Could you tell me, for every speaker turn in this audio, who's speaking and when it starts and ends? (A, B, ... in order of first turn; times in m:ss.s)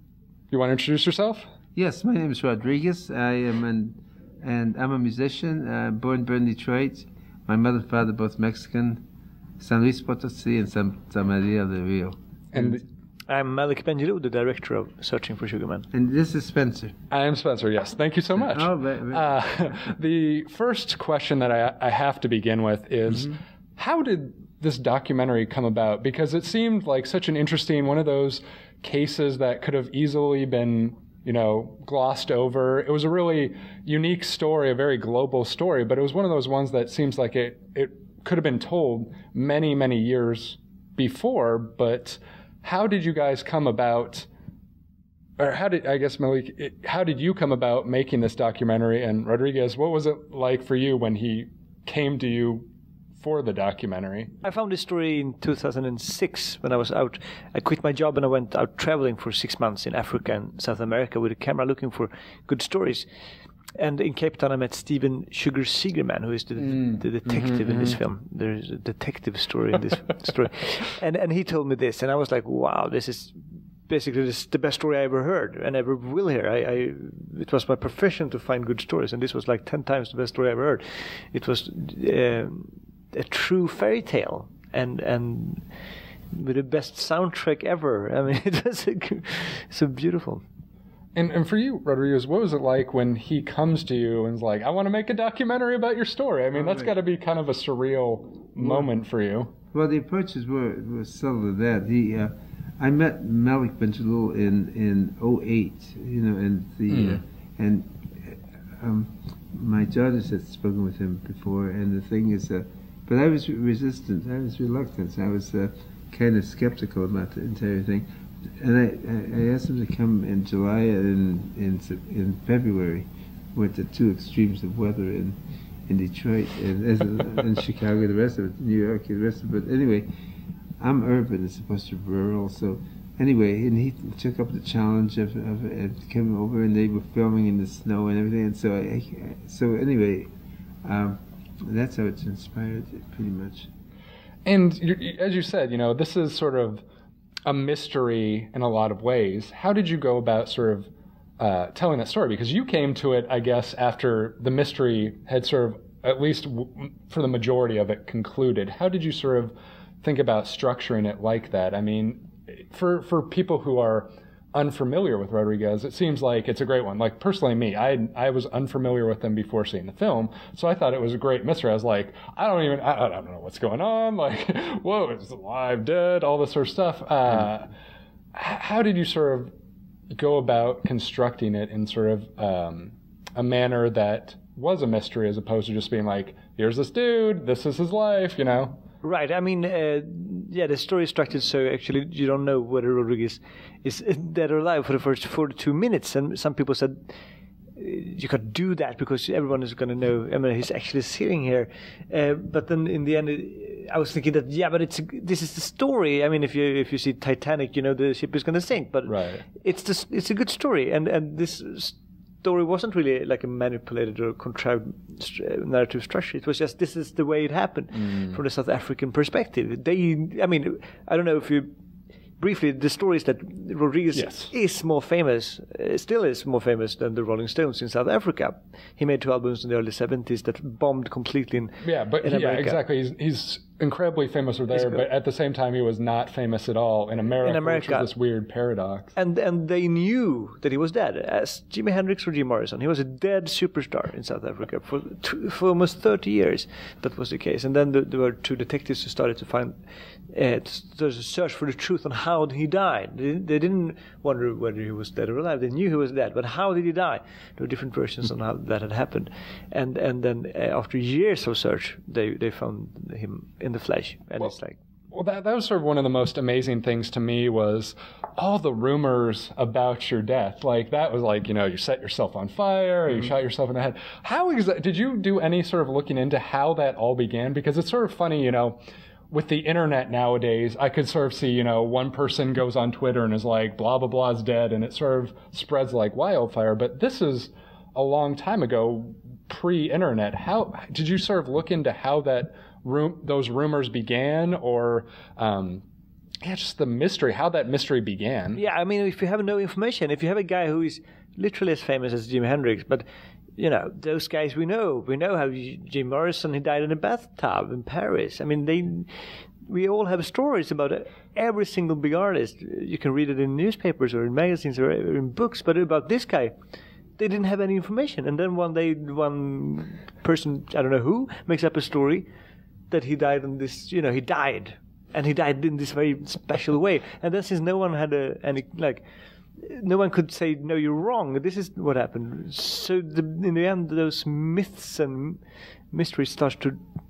0:00.5-0:01.5 A
0:01.7-0:09.0 B
0:09.6-0:12.8 B
0:12.5-0:12.8 A
0:13.3-0:15.8 C
0:15.9-0:16.9 B
0:17.1-0:44.3 A
0:18.3-0:19.4 B
0:45.4-0:54.3 A
0:54.4-1:03.0 C
1:03.8-1:25.6 C
1:06.7-1:07.0 B
1:26.3-1:30.4 C
1:31.1-1:39.5 A
1:36.5-1:36.9 B
1:38.6-1:38.9 B
1:39.7-1:58.0 B
1:46.9-1:47.2 A
1:58.6-2:10.1 B
2:10.8-2:20.3 B
2:20.8-2:23.7 B
2:24.4-2:26.8 A
2:27.5-2:57.7 A
2:58.3-2:59.5 A
3:00.1-3:08.8 A
3:09.0-3:17.1 C
3:17.8-3:41.7 C
3:29.0-3:29.4 A
3:37.9-3:38.4 A
3:42.4-3:52.8 C
3:44.1-3:44.5 A
3:51.8-3:59.1 A
3:54.7-3:55.1 C
3:57.4-3:58.1 C
3:59.1-4:09.8 C
4:10.3-4:24.8 C
4:25.1-4:38.8 A
4:39.3-4:55.8 A
4:56.4-4:58.6 A
4:58.5-5:03.0 C
5:03.6-5:09.1 C
5:09.6-5:16.5 C
5:17.2-5:22.3 C
5:22.9-5:29.0 C
5:29.6-5:35.4 C
5:35.9-5:36.8 C